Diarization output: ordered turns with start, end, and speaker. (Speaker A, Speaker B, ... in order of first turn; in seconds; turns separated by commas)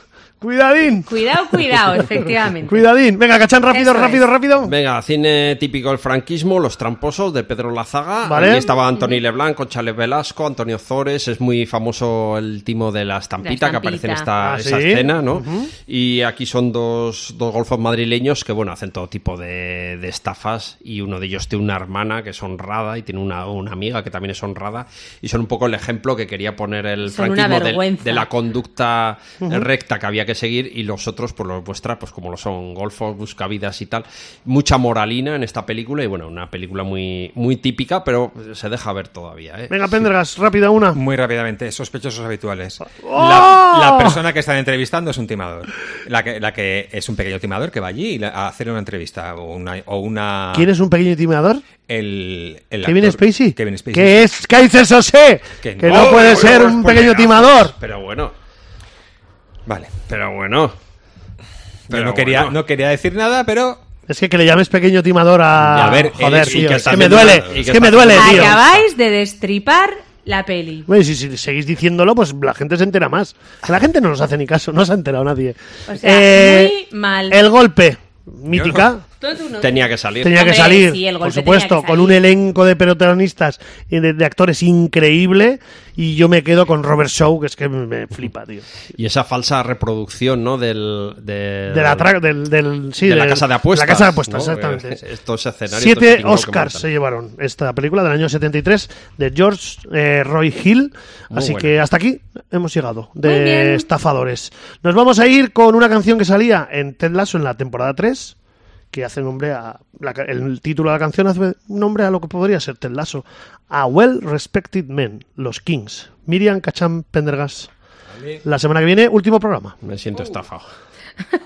Speaker A: 0.4-2.0, Speaker B: 1.1-2.8, Speaker A: 2.7-4.7, Speaker B: 3.7-4.2, Speaker C: 4.6-39.8, Speaker A: 8.2-8.7, Speaker B: 8.8-9.2, Speaker B: 13.4-14.3, Speaker A: 14.4-15.7, Speaker B: 27.0-28.3, Speaker A: 29.4-29.7, Speaker A: 39.7-41.0, Speaker D: 40.9-50.7, Speaker A: 42.9-44.2, Speaker A: 50.5-51.6, Speaker D: 51.9-54.3, Speaker A: 52.8-57.7, Speaker D: 55.6-56.6, Speaker C: 55.9-58.3, Speaker D: 59.6-59.9, Speaker C: 60.1-60.7, Speaker C: 61.9-62.6, Speaker D: 61.9-63.8, Speaker A: 64.1-68.6, Speaker D: 65.6-68.8, Speaker C: 65.7-68.6, Speaker B: 68.1-70.9, Speaker A: 70.9-76.7, Speaker B: 75.9-77.4, Speaker A: 77.3-79.0, Speaker D: 78.5-78.9, Speaker B: 79.2-82.2, Speaker C: 79.6-80.4, Speaker A: 80.2-88.7, Speaker C: 89.0-92.1, Speaker A: 91.7-95.0, Speaker C: 93.0-96.8, Speaker A: 95.7-108.3, Speaker C: 101.3-101.7, Speaker B: 103.2-103.9, Speaker A: 108.9-117.7, Speaker A: 118.4-119.8, Speaker C: 119.8-120.7